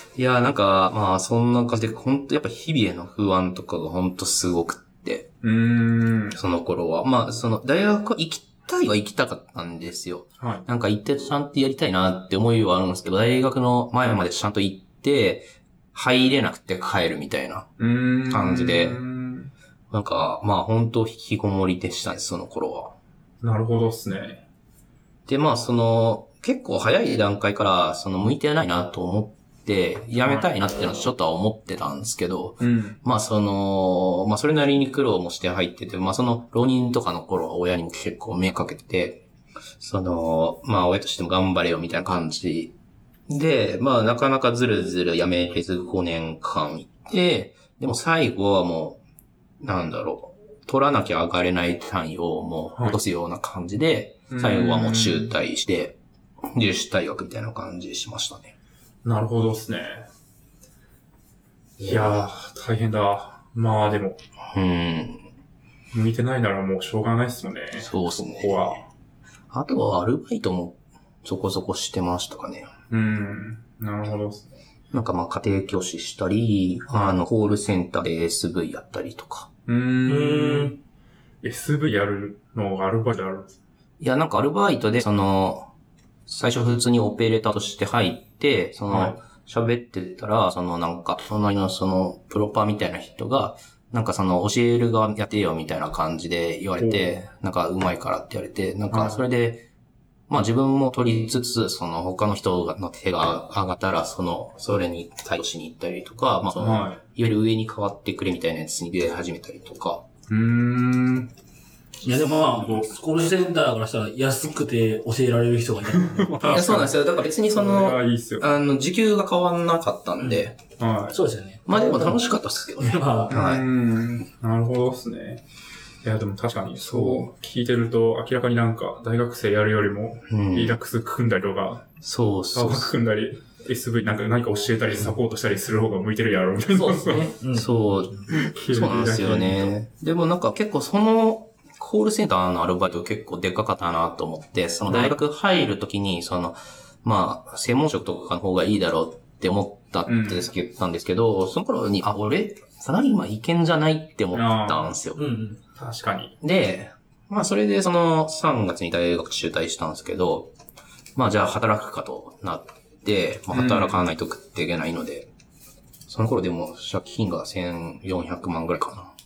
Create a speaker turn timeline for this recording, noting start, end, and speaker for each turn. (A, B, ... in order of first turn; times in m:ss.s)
0:00.2-0:05.3 A
0:05.4-0:06.4 B
0:06.4-0:17.7 A
0:10.4-0:10.6 B
0:17.8-0:19.5 B
0:18.3-0:19.0 A
0:19.9-0:23.0 A
0:23.4-0:24.4 B
0:25.3-0:39.3 A
0:30.2-0:30.5 B
0:32.6-0:33.0 B
0:39.8-0:42.7 A
0:43.3-0:49.0 A
0:49.6-0:56.0 A
0:54.3-0:55.3 B
0:56.5-0:58.5 A
0:59.0-1:00.1 B
1:01.8-1:02.2 A
1:01.8-1:04.2 B
1:04.5-1:05.3 A
1:05.9-1:08.8 B
1:07.8-1:08.8 A
1:09.5-1:12.7 A
1:12.9-1:14.5 B
1:14.9-1:19.5 A
1:16.9-1:17.2 B
1:19.7-1:20.8 B
1:20.1-1:20.8 C
1:21.4-1:23.6 B
1:24.0-1:25.7 A
1:26.3-1:39.6 A
1:28.9-1:29.2 B
1:36.8-1:37.2 B
1:38.9-1:39.2 B
1:40.3-1:50.0 A
1:46.6-1:47.0 B
1:50.3-1:51.3 B
1:52.0-1:56.5 C
1:52.1-1:52.9 B
1:55.9-1:57.0 B
1:56.4-2:00.5 A
1:57.5-1:58.5 B
2:00.2-2:01.2 B
2:01.1-2:02.2 C
2:01.7-2:03.6 A
2:02.8-2:03.4 C
2:03.3-2:05.4 B
2:06.0-2:11.9 B
2:06.9-2:07.2 C
2:10.3-2:10.8 A
2:12.0-2:12.9 A
2:12.5-2:17.3 B
2:16.7-2:18.3 C
2:17.5-2:35.2 A
2:18.3-2:19.7 B
2:24.9-2:25.2 B
2:30.1-2:30.5 B
2:34.3-2:34.9 B
2:35.2-2:35.6 C
2:35.8-2:36.4 B
2:36.4-2:40.5 A
2:41.2-2:45.3 A
2:43.5-2:44.0 B
2:46.1-2:49.1 A